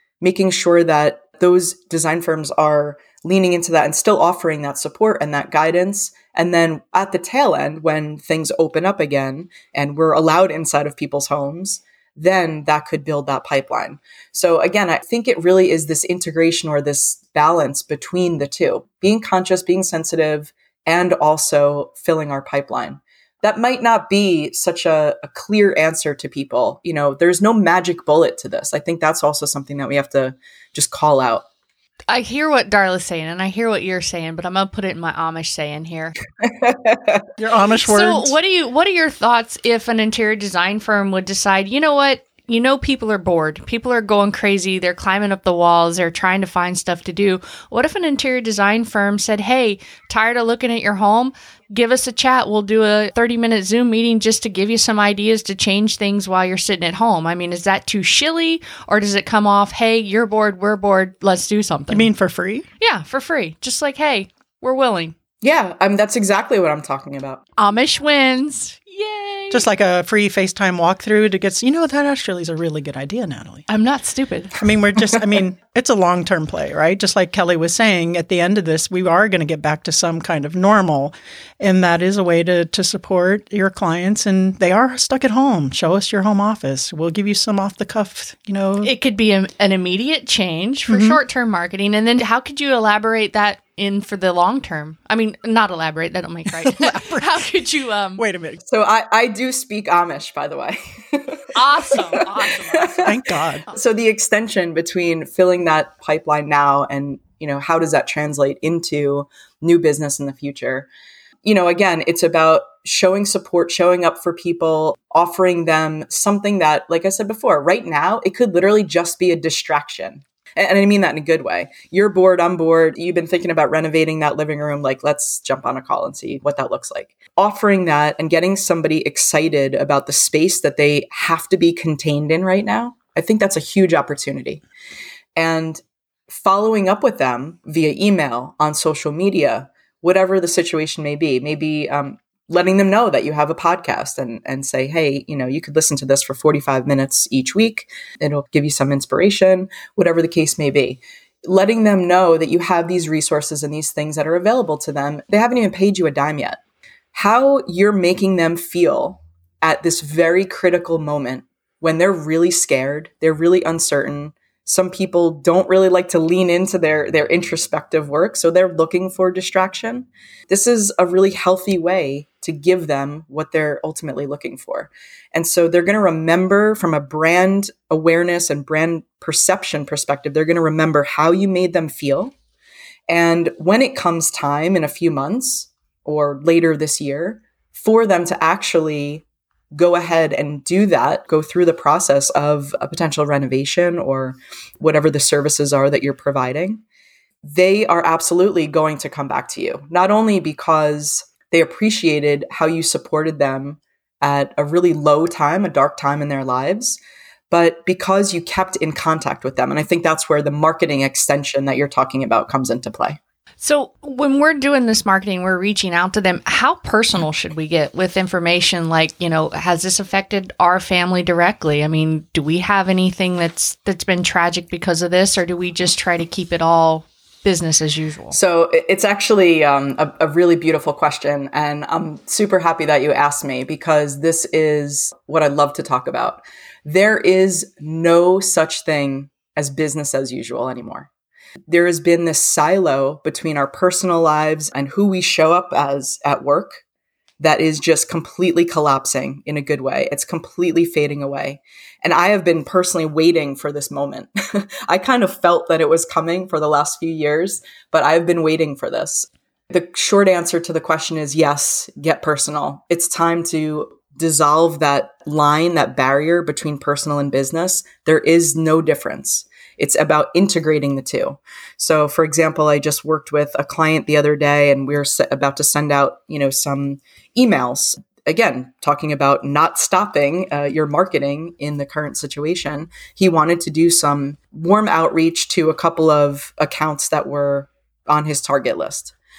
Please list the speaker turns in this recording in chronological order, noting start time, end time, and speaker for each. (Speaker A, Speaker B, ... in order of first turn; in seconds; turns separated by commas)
Speaker A: 0.2-31.4, Speaker B: 32.1-36.1, Speaker A: 36.5-37.2, Speaker C: 37.4-38.4, Speaker B: 37.9-62.1, Speaker C: 61.9-62.7, Speaker B: 62.8-65.1, Speaker A: 65.4-67.4, Speaker B: 67.6-69.7, Speaker C: 69.5-73.7, Speaker B: 73.7-74.5, Speaker C: 74.5-88.9, Speaker B: 88.8-98.2, Speaker C: 90.9-91.2, Speaker C: 96.5-97.5, Speaker C: 98.2-98.6, Speaker A: 98.7-103.0, Speaker B: 101.5-103.1, Speaker C: 103.0-103.7, Speaker A: 103.7-110.9, Speaker A: 111.4-134.6, Speaker A: 135.4-156.6, Speaker A: 157.1-182.3, Speaker A: 183.1-196.8, Speaker A: 197.4-207.0, Speaker A: 207.5-213.2, Speaker B: 213.6-228.4, Speaker A: 228.3-241.1, Speaker A: 241.7-246.8, Speaker A: 247.4-289.1